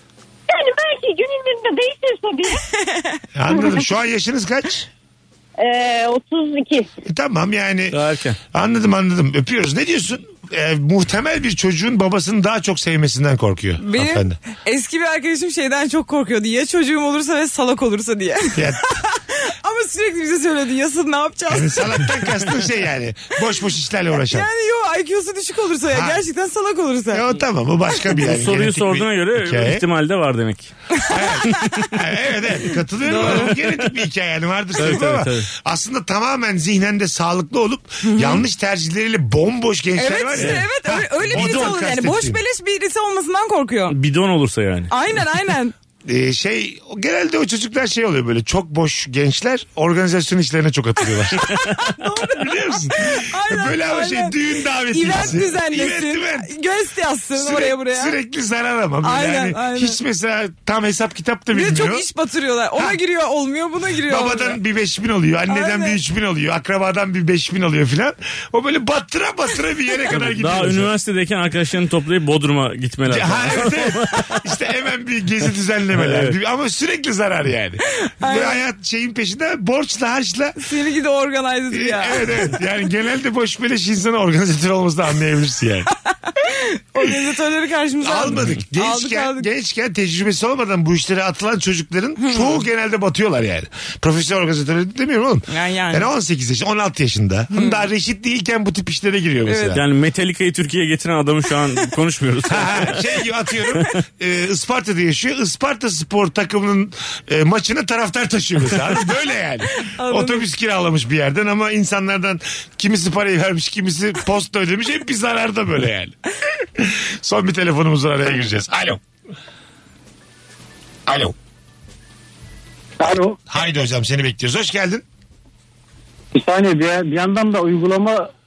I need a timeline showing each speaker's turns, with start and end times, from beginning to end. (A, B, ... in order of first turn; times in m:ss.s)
0:00.5-0:02.6 A
0:03.4-0:04.9 B
0:03.5-0:03.8 A
0:05.6-0:06.9 A
0:07.0-0:08.0 B
0:07.9-0:08.4 C
0:08.5-0:14.4 B
0:13.8-0:22.0 D
0:18.6-0:18.8 B
0:21.5-0:24.5 B
0:24.2-0:27.2 D
0:25.9-0:26.2 B
0:27.1-0:29.8 B
0:28.1-0:30.7 C
0:31.0-0:31.8 D
0:31.1-0:42.4 B
0:31.5-0:31.9 C
0:33.1-0:33.5 D
0:33.1-0:33.7 C
0:34.8-0:35.5 C
0:38.0-0:38.4 D
0:40.0-0:44.0 D
0:40.4-0:40.6 C
0:41.3-0:41.8 C
0:43.9-0:44.9 C
0:44.9-0:45.7 D
0:46.0-0:51.5 B
0:51.4-0:54.4 D
0:52.2-0:56.5 B
0:54.9-0:58.2 D
0:57.4-1:02.1 B
0:59.0-1:00.0 D
1:01.5-1:04.6 D
1:04.1-1:10.9 B
1:05.5-1:06.0 D
1:10.1-1:14.4 C
1:13.1-1:20.6 B
1:16.0-1:16.4 C
1:18.1-1:18.6 D
1:20.6-1:22.3 D
1:21.7-1:25.9 B
1:26.4-1:29.5 D
1:28.0-1:39.8 B
1:32.2-1:32.6 D
1:35.5-1:36.1 D
1:37.5-1:37.8 D
1:39.5-1:39.8 D
1:39.7-1:43.0 C
1:42.5-1:59.0 B
1:49.7-1:50.5 D
2:01.1-2:01.4 B
2:03.0-2:03.4 E
2:03.5-2:05.0 B
2:06.3-2:08.3 E